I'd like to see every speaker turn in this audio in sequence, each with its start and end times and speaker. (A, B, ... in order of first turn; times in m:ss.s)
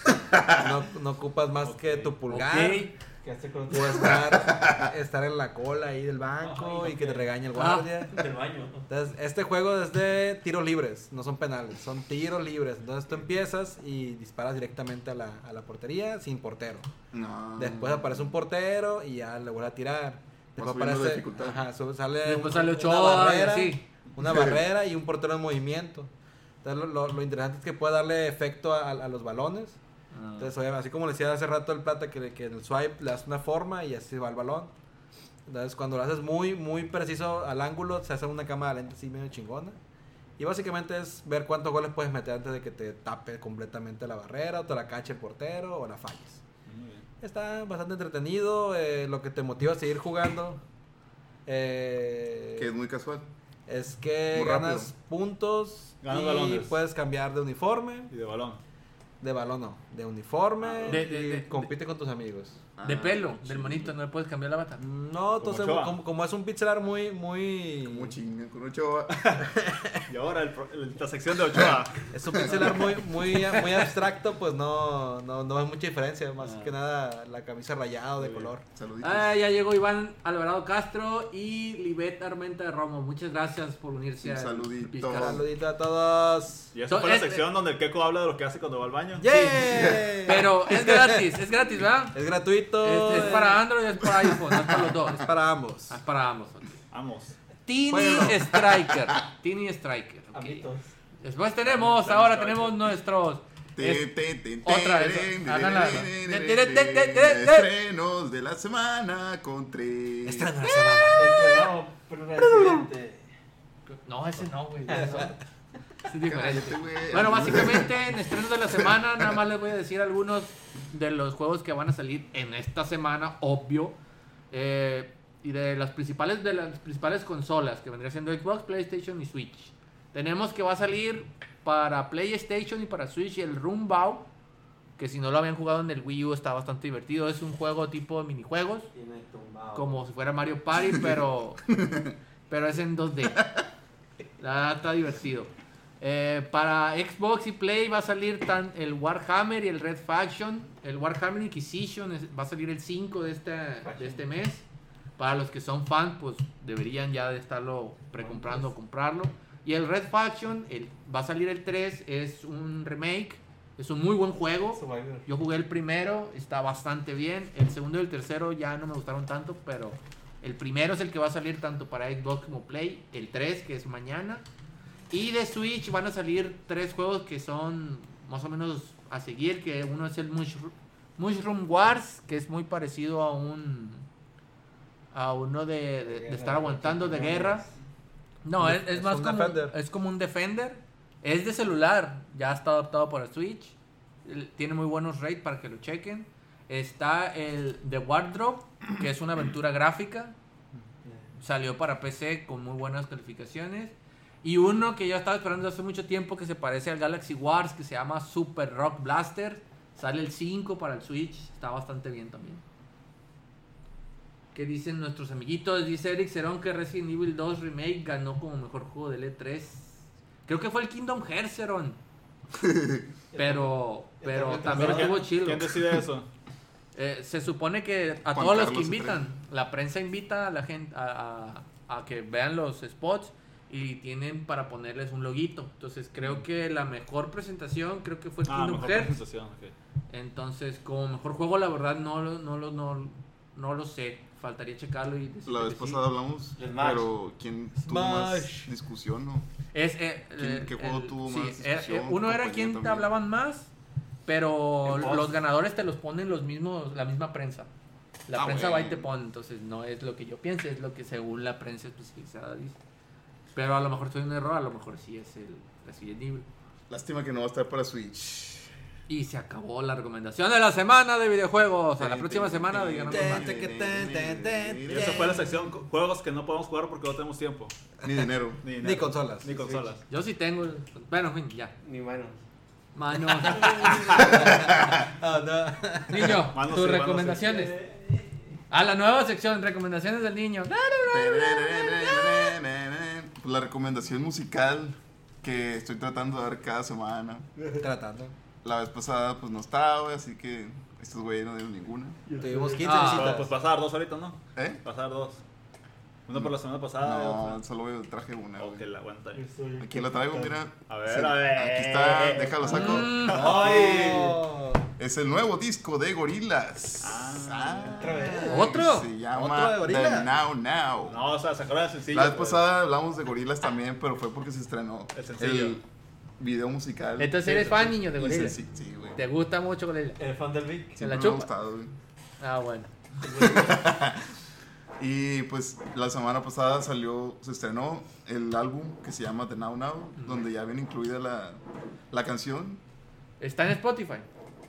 0:00.3-0:00.6 A
0:00.5-0:02.9 B
0:01.6-0:02.1 C
0:02.3-0:02.9 D
0:03.2-0:04.4 E
0:03.7-0:08.1 B
0:04.4-0:04.9 A
0:06.4-0:07.3 E
0:07.5-0:08.1 D
0:08.0-0:08.9 E
0:08.9-0:16.9 B
0:17.1-0:18.3 A
0:17.6-0:26.1 B
0:20.6-0:21.6 A
0:22.2-0:23.8 D
0:24.2-0:24.6 A
0:26.6-0:29.8 B
0:30.1-0:30.5 D
0:30.4-0:34.7 B
0:35.4-0:39.8 B
0:40.4-0:46.4 B
0:46.6-0:47.0 C
0:47.2-0:50.6 B
0:51.4-0:52.7 B
0:52.6-0:53.2 A
0:53.7-0:58.1 B
0:54.3-0:54.9 A
0:56.0-0:56.7 C
0:58.1-0:58.6 C
0:59.2-1:02.6 B
1:00.6-1:00.9 C
1:00.9-1:01.7 D
1:02.8-1:03.9 A
1:02.8-1:04.8 D
1:04.8-1:08.2 B
1:05.4-1:06.0 C
1:07.8-1:09.5 A
1:09.1-1:09.4 C
1:09.6-1:10.0 B
1:10.0-1:12.1 C
1:12.1-1:18.6 B
1:12.3-1:12.8 A
1:16.4-1:16.7 C
1:18.2-1:18.5 C
1:18.7-1:19.3 A
1:19.0-1:25.4 D
1:24.2-1:25.4 A
1:25.1-1:26.7 B
1:26.7-1:29.3 C
1:26.9-1:27.4 D
1:29.2-1:31.2 B
1:29.3-1:32.2 D
1:29.7-1:30.1 A
1:32.1-1:33.6 B
1:32.8-1:35.3 D
1:34.5-1:34.8 A
1:35.2-1:36.0 B
1:35.9-1:36.7 D
1:36.9-1:37.4 C
1:37.6-1:40.6 D
1:37.9-1:38.6 B
1:38.0-1:39.1 A
1:40.3-1:40.9 E
1:41.2-1:44.1 D
1:41.6-1:42.8 C
1:43.8-1:50.5 A
1:44.6-1:47.7 D
1:50.2-1:51.7 B
1:51.1-1:53.3 E
1:52.4-1:52.8 B
1:54.0-1:55.4 D
1:54.9-1:55.3 E
1:56.0-2:04.0 D
1:56.2-1:58.0 A
2:04.5-2:14.3 D
2:15.0-2:18.9 D
2:18.9-2:20.1 E
2:19.7-2:21.6 D
2:20.8-2:21.1 A
2:21.7-2:22.1 A
2:22.5-2:23.4 D
2:23.4-2:23.6 A
2:24.4-2:34.6 D
2:33.8-2:34.2 E
2:35.2-2:54.4 D
2:38.2-2:38.7 E
2:44.7-2:45.3 E
2:55.1-3:04.0 D
3:05.1-3:07.6 D
3:06.1-3:07.8 E
3:08.4-3:20.3 D
3:08.6-3:09.8 B
3:21.4-3:32.6 D
3:34.5-3:42.0 D
3:42.6-3:43.1 A
3:43.3-3:45.4 E
3:43.4-3:45.7 D
3:44.6-3:46.3 C
3:46.9-3:59.2 D
3:48.3-3:49.2 A
3:58.4-3:59.7 C
4:00.1-4:06.0 D
4:05.4-4:09.5 A
4:06.6-4:07.1 E
4:07.8-4:08.7 B
4:09.7-4:13.7 D
4:10.4-4:13.1 A
4:14.2-4:17.7 D
4:14.8-4:15.4 E
4:18.3-4:22.8 D
4:18.3-4:19.1 A
4:23.5-4:26.5 D
4:26.9-4:28.7 A
4:29.1-4:33.5 D
4:32.0-4:35.3 A
4:33.1-4:35.6 B
4:34.9-4:37.7 C
4:38.0-4:38.6 A
4:38.6-4:40.0 C
4:38.8-4:39.6 B
4:40.1-4:41.7 D
4:41.8-4:42.4 E
4:42.9-4:44.2 D
4:43.4-4:46.4 B
4:43.5-4:44.3 E
4:44.2-4:45.0 A
4:46.1-4:47.8 D
4:46.5-4:47.4 C
4:47.3-4:48.4 E
4:48.7-4:51.8 D
4:51.1-4:57.5 A
4:57.8-4:58.3 B
4:58.6-5:02.2 A
5:02.3-5:03.1 E
5:02.4-5:03.5 B
5:02.8-5:03.3 D
5:02.9-5:05.4 C
5:06.3-5:07.6 C
5:07.0-5:08.8 A
5:08.6-5:09.4 C
5:09.3-5:10.6 E
5:09.8-5:13.2 A
5:10.9-5:14.4 C
5:12.7-5:13.5 D
5:12.9-5:14.9 B
5:13.6-5:14.1 E
5:15.0-5:21.2 A
5:17.0-5:18.2 C
5:18.0-5:18.7 E
5:18.1-5:18.7 B
5:18.4-5:19.1 D
5:19.3-5:20.3 B
5:21.0-5:22.6 C
5:22.1-5:25.8 A
5:25.1-5:25.8 C
5:26.4-5:29.2 A
5:27.2-5:28.6 D
5:29.2-5:30.2 D
5:30.2-5:31.0 E
5:31.0-5:31.9 A
5:31.0-5:31.5 D
5:32.4-5:32.9 D
5:33.2-5:33.8 E
5:33.3-5:34.2 A
5:35.0-5:42.8 A
5:40.2-5:40.5 D
5:43.4-5:44.3 D